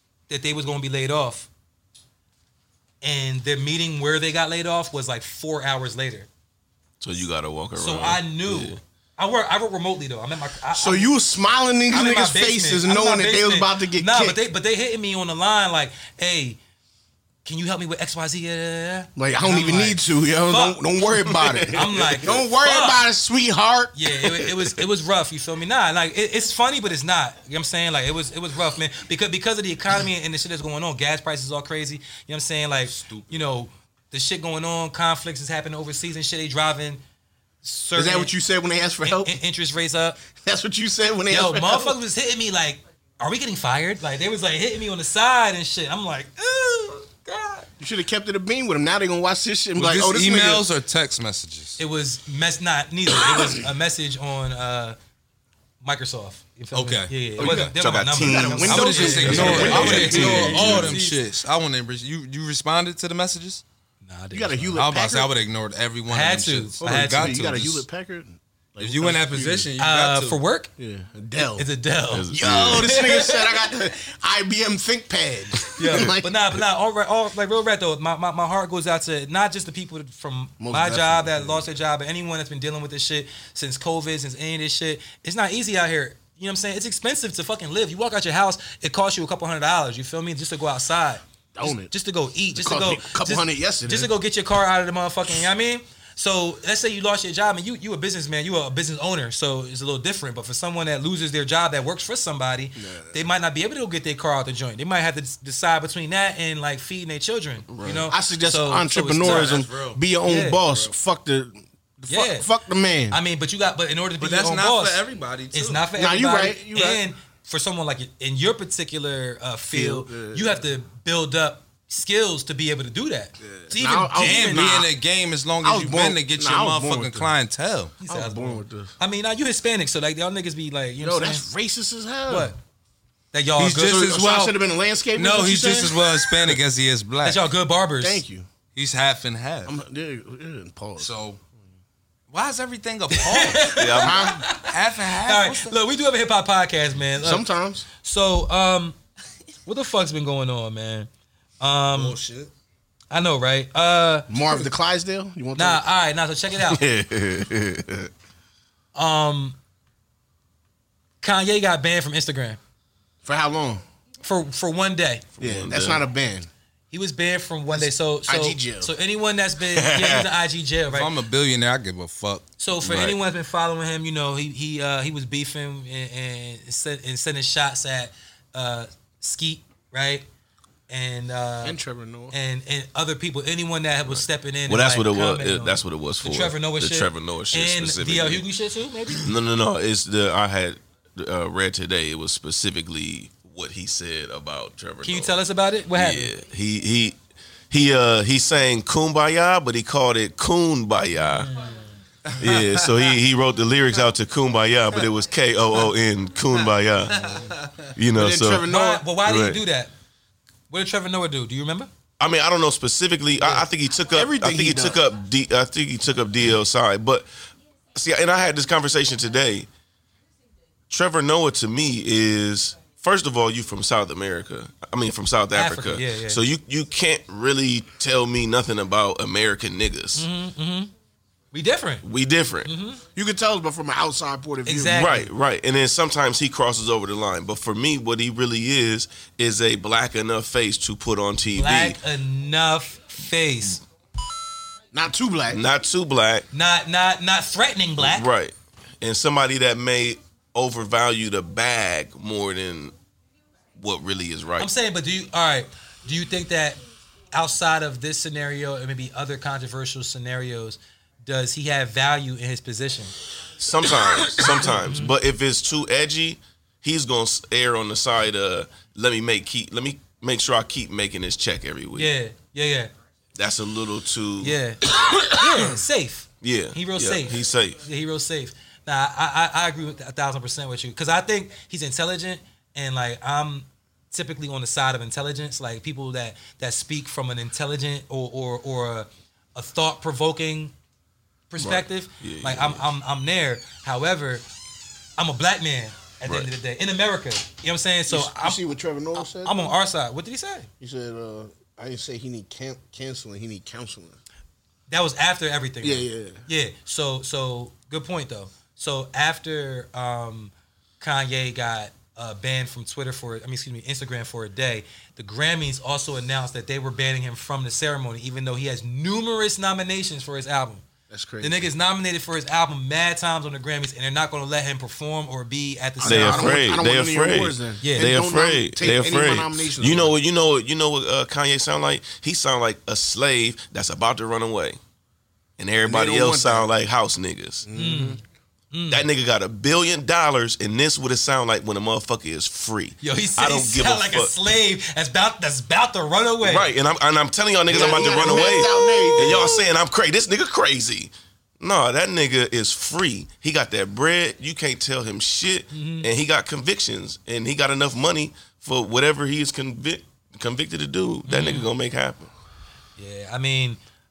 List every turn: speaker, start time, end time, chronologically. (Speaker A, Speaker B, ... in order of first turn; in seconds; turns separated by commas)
Speaker A: 0.3-1.5, Speaker A: 3.0-6.3, Speaker B: 7.0-8.8, Speaker A: 7.8-11.1, Speaker C: 10.8-14.4, Speaker A: 11.9-16.6, Speaker A: 17.4-23.0, Speaker C: 19.2-24.0, Speaker A: 23.9-37.0, Speaker D: 32.9-33.4, Speaker A: 37.6-38.3, Speaker C: 38.0-39.4, Speaker A: 39.0-40.2, Speaker C: 40.4-42.0, Speaker A: 41.3-47.7, Speaker C: 47.8-50.6, Speaker D: 49.8-51.8, Speaker A: 51.8-55.0, Speaker A: 55.8-61.2, Speaker D: 56.7-57.8, Speaker B: 57.4-60.9, Speaker C: 58.1-60.9, Speaker D: 58.6-63.6, Speaker A: 64.0-64.8, Speaker C: 64.3-65.3, Speaker D: 64.8-67.8, Speaker A: 66.1-67.5, Speaker C: 66.8-69.7, Speaker D: 68.8-70.4, Speaker A: 69.8-70.7, Speaker C: 70.8-71.7, Speaker A: 71.4-73.5, Speaker B: 72.1-73.0, Speaker C: 72.3-76.4, Speaker A: 75.8-109.6, Speaker C: 80.6-81.7, Speaker C: 91.5-91.9, Speaker C: 92.5-94.1, Speaker C: 102.8-103.2, Speaker B: 107.7-108.1, Speaker C: 107.9-113.2, Speaker D: 109.2-110.0, Speaker A: 110.2-110.6, Speaker A: 112.1-112.5, Speaker A: 113.1-124.8, Speaker D: 114.2-115.9, Speaker C: 116.0-117.0, Speaker C: 119.7-120.6, Speaker C: 123.7-124.9, Speaker D: 124.1-128.0, Speaker C: 125.6-127.3, Speaker A: 128.0-131.5, Speaker C: 128.1-128.9, Speaker C: 131.0-132.5, Speaker A: 132.3-132.6, Speaker A: 133.3-134.2, Speaker D: 133.6-134.6, Speaker C: 133.8-136.0, Speaker D: 135.2-137.5, Speaker A: 137.2-138.2, Speaker C: 138.0-138.5, Speaker D: 138.8-139.8, Speaker C: 139.7-141.1, Speaker D: 141.0-141.4, Speaker D: 142.3-143.8, Speaker A: 143.1-147.5, Speaker B: 143.8-144.3, Speaker C: 144.0-144.5, Speaker D: 144.6-145.8, Speaker C: 147.2-147.9, Speaker A: 148.0-149.0, Speaker A: 149.7-151.1, Speaker A: 151.6-152.2, Speaker D: 151.9-152.5, Speaker A: 153.1-154.7, Speaker C: 154.3-155.9, Speaker A: 155.6-156.8, Speaker B: 156.8-157.8, Speaker A: 158.9-159.6, Speaker A: 161.2-162.6, Speaker C: 163.2-163.8, Speaker A: 164.2-165.2, Speaker B: 165.4-166.0, Speaker C: 165.4-166.5, Speaker A: 166.9-171.1, Speaker C: 167.7-168.9, Speaker B: 169.7-170.3, Speaker D: 170.9-172.5, Speaker A: 172.6-180.3, Speaker B: 172.8-173.2, Speaker A: 180.9-181.8, Speaker C: 181.6-182.3, Speaker A: 182.3-189.3, Speaker B: 184.1-188.4, Speaker B: 189.2-195.4, Speaker A: 195.0-196.3, Speaker B: 195.9-197.2, Speaker B: 197.7-201.5, Speaker A: 201.2-201.9, Speaker D: 202.2-203.0, Speaker B: 202.4-207.3, Speaker D: 207.1-207.9, Speaker B: 208.0-208.7, Speaker C: 208.1-209.1, Speaker A: 208.7-209.9, Speaker B: 209.2-209.6, Speaker A: 210.7-211.9, Speaker B: 212.2-217.3, Speaker C: 214.1-215.0, Speaker B: 217.9-219.7, Speaker B: 220.9-230.3, Speaker A: 225.5-226.4, Speaker A: 230.2-230.9, Speaker A: 231.5-232.1, Speaker B: 232.0-232.7, Speaker A: 232.7-233.0, Speaker C: 233.2-235.1, Speaker A: 234.7-235.3, Speaker B: 234.9-242.0, Speaker A: 241.6-243.8, Speaker C: 244.9-245.6, Speaker B: 245.5-246.5, Speaker A: 246.5-248.3, Speaker B: 248.0-252.9, Speaker B: 253.8-254.7, Speaker A: 254.6-256.8, Speaker A: 257.3-263.1, Speaker B: 263.6-272.1, Speaker A: 264.4-265.1, Speaker A: 271.9-272.9, Speaker B: 273.4-275.3, Speaker A: 274.4-290.7, Speaker B: 276.4-277.8, Speaker A: 291.5-294.4, Speaker B: 291.6-292.9, Speaker A: 295.2-298.6, Speaker C: 298.1-299.8, Speaker A: 299.2-300.7, Speaker C: 300.8-304.2, Speaker A: 304.9-320.8, Speaker C: 305.8-306.4, Speaker C: 321.1-321.6, Speaker A: 321.4-326.6, Speaker C: 326.0-330.2, Speaker B: 326.0-334.8, Speaker A: 327.8-328.1, Speaker B: 335.6-337.7, Speaker C: 335.8-336.7, Speaker C: 337.6-338.2, Speaker A: 337.8-338.2, Speaker A: 338.7-339.1, Speaker B: 338.9-344.4, Speaker A: 343.0-346.7, Speaker B: 346.4-362.3, Speaker C: 347.7-349.6, Speaker A: 347.8-349.6, Speaker A: 355.7-356.1, Speaker A: 361.3-361.7, Speaker A: 363.0-363.8